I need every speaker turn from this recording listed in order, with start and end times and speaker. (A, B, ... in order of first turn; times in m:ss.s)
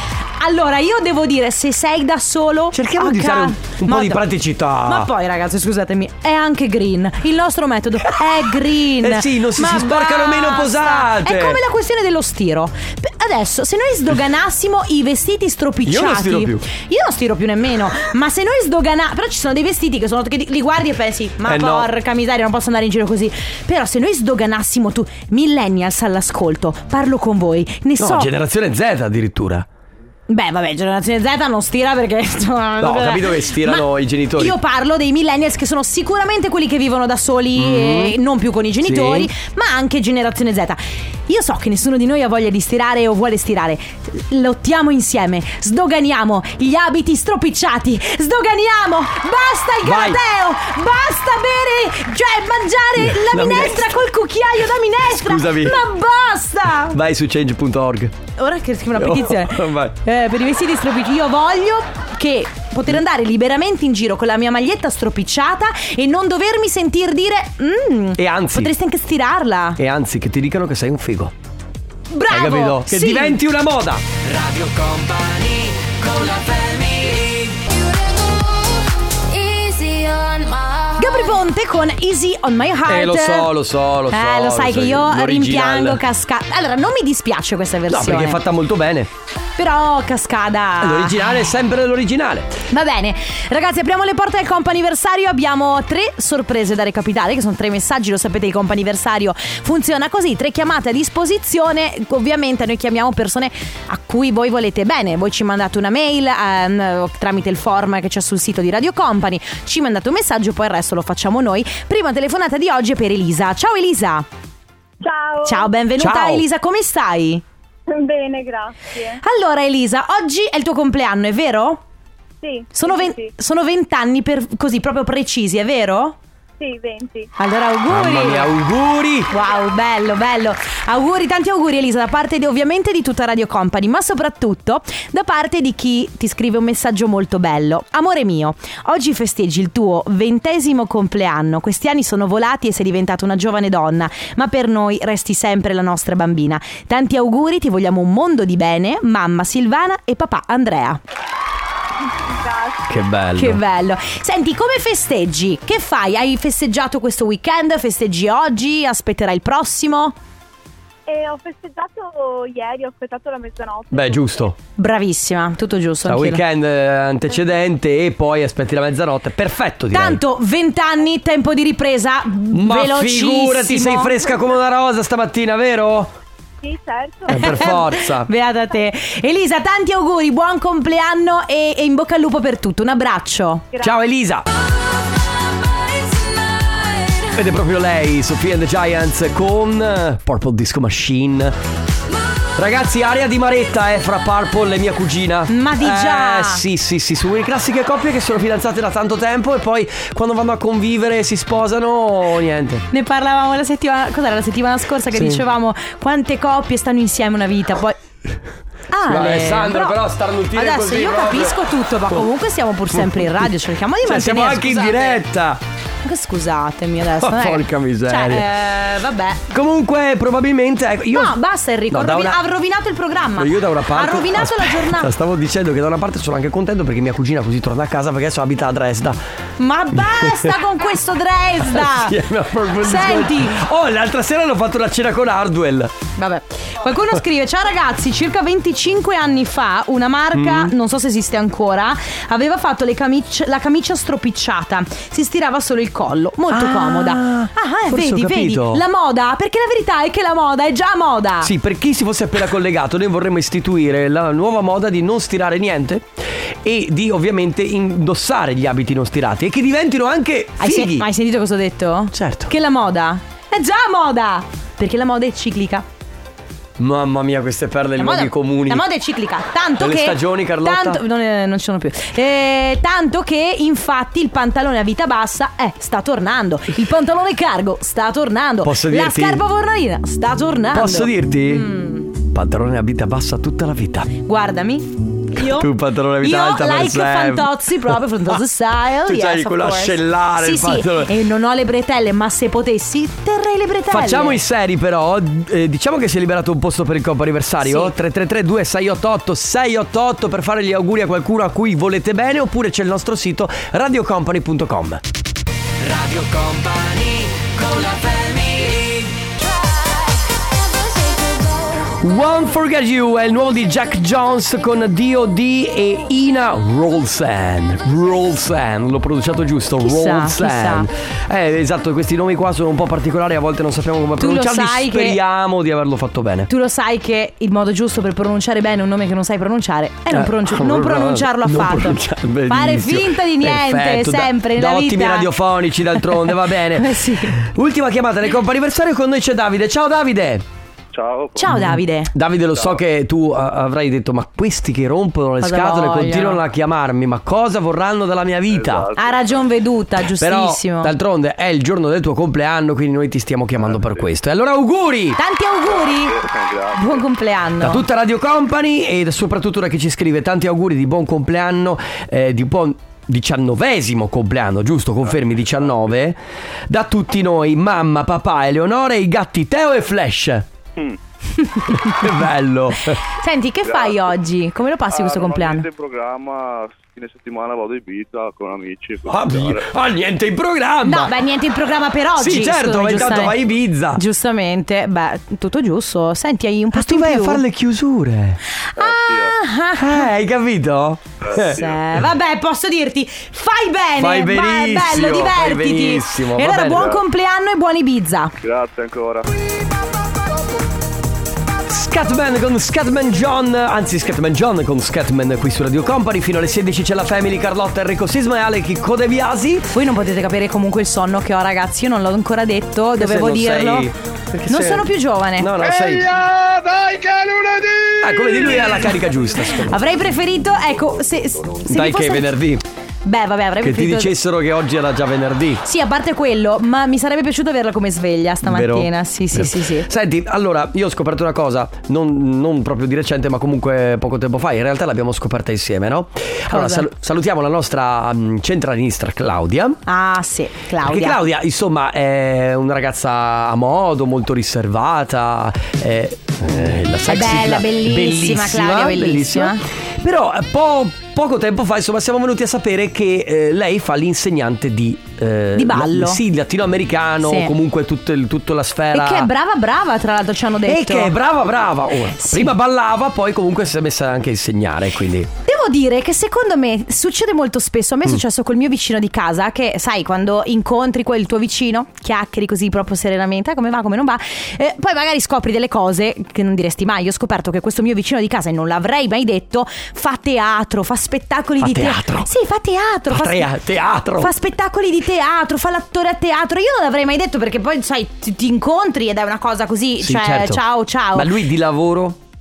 0:00.4-0:28.3 A
0:02.7-0:05.1 B
0:09.0-0:11.6 B
0:15.8-0:16.6 B
0:21.4-0:21.9 B
0:28.0-0:29.7 B
0:30.3-0:57.0 A
0:32.8-0:34.6 B
0:37.5-0:38.2 B
0:38.8-0:39.3 B
0:49.8-0:50.2 B
0:53.0-0:54.0 B
0:55.0-0:55.8 B
0:56.9-0:58.1 B
0:58.4-1:09.8 A
0:58.9-1:00.0 B
1:08.2-1:08.7 B
1:09.8-1:11.3 B
1:12.1-1:13.4 A
1:12.3-1:17.6 B
1:19.4-1:20.2 B
1:21.0-1:23.5 A
1:22.8-1:26.0 B
1:24.1-1:28.4 A
1:27.9-1:29.1 B
1:29.6-1:31.3 A
1:30.8-1:32.6 B
1:32.7-1:54.2 A
1:55.0-1:55.7 C
1:55.4-1:57.4 A
1:56.0-1:56.4 B
1:57.9-1:59.2 C
1:59.2-2:01.8 A
2:02.4-2:03.3 C
2:02.7-2:06.2 A
2:06.6-2:07.3 C
2:07.4-2:08.5 A
2:07.9-2:09.3 B
2:09.3-2:31.0 A
2:32.3-2:32.9 C
2:32.9-2:33.6 B
2:33.4-2:40.1 A
2:41.1-2:44.5 C
2:43.9-2:44.6 B
2:44.8-2:46.4 A
2:46.0-2:50.2 B
2:49.9-2:54.4 A
2:52.5-2:56.1 B
2:56.6-2:57.9 C
2:57.3-2:58.3 B
2:57.3-3:03.6 A
3:03.8-3:04.4 B
3:07.3-3:11.6 B
3:12.6-3:22.8 B
3:15.5-3:16.6 A
3:22.9-3:27.9 A
3:25.1-3:25.4 B
3:28.9-3:30.0 A
3:29.1-3:31.6 B
3:30.5-3:35.2 A
3:32.9-3:33.5 B
3:34.0-3:35.6 B
3:36.0-3:39.4 A
3:37.2-3:38.5 B
3:39.5-3:41.4 B
3:41.1-3:45.1 A
3:41.9-3:42.4 B
3:43.4-3:49.2 B
3:49.6-3:52.2 A
3:49.9-3:50.5 B
3:51.6-3:55.9 B
3:52.8-3:53.6 A
3:56.2-4:11.5 A
4:00.3-4:00.7 B
4:06.5-4:08.8 B
4:11.4-4:16.1 B
4:16.6-4:21.1 B
4:20.6-4:25.8 A
4:22.1-4:22.5 B
4:26.8-4:28.8 B
4:28.0-4:42.1 A
4:29.8-4:31.0 B
4:38.6-4:39.4 B
4:40.7-4:44.1 B
4:44.2-4:54.4 A
4:45.3-4:48.3 B
4:49.0-4:51.1 B
4:53.9-5:05.0 B
4:57.6-4:57.9 A
5:05.8-5:09.3 B
5:11.8-5:26.5 B
5:19.8-5:20.9 A
5:24.2-5:25.2 A
5:26.5-5:35.3 A
5:30.1-5:40.4 B
5:36.0-5:37.4 A
5:40.9-5:41.6 D
5:41.4-5:42.1 A
5:41.5-5:48.9 B
5:45.4-5:46.4 A
5:48.5-5:49.5 D
5:49.0-5:50.9 A
5:50.0-5:55.2 B
5:53.7-5:54.0 D
5:55.2-5:56.2 A
5:55.6-5:57.1 D
5:56.7-5:57.8 A
5:57.6-6:06.2 B
6:05.1-6:05.9 D
6:06.7-6:10.5 B
6:11.4-6:11.9 A
6:11.8-6:13.0 B
6:13.1-6:15.6 A
6:13.6-6:14.1 D
6:14.9-6:19.7 D
6:19.0-6:21.1 B
6:20.8-6:23.4 A
6:22.2-6:24.0 B
6:23.9-6:27.4 A
6:26.7-6:28.4 B
6:28.6-6:30.0 A
6:28.8-6:29.4 D
6:29.8-6:31.6 B
6:31.2-6:31.8 D
6:31.3-6:38.3 A
6:34.0-6:36.9 B
6:36.8-6:37.0 D
6:38.4-6:39.2 D
6:41.7-6:49.7 B
6:49.7-6:53.9 A
6:53.0-6:56.2 B
6:54.5-6:55.6 A
6:56.2-6:58.3 E
6:58.0-7:00.0 B
6:59.6-7:02.4 A
7:01.6-7:02.6 B
7:03.0-7:04.1 A
7:03.6-7:05.6 B
7:05.6-7:09.9 A
7:08.4-7:19.8 B
7:16.5-7:16.9 A
7:19.9-7:21.2 A
7:20.8-7:39.3 B
7:27.1-7:29.6 A
7:35.6-7:36.2 A
7:37.2-7:37.5 A
7:38.9-7:41.1 A
7:40.6-7:45.3 B
7:42.2-7:42.5 A
7:45.4-8:03.5 A
8:01.6-8:02.3 B
8:03.1-8:04.3 B
8:04.2-8:11.3 A
8:10.0-8:10.6 B
8:11.1-8:12.2 B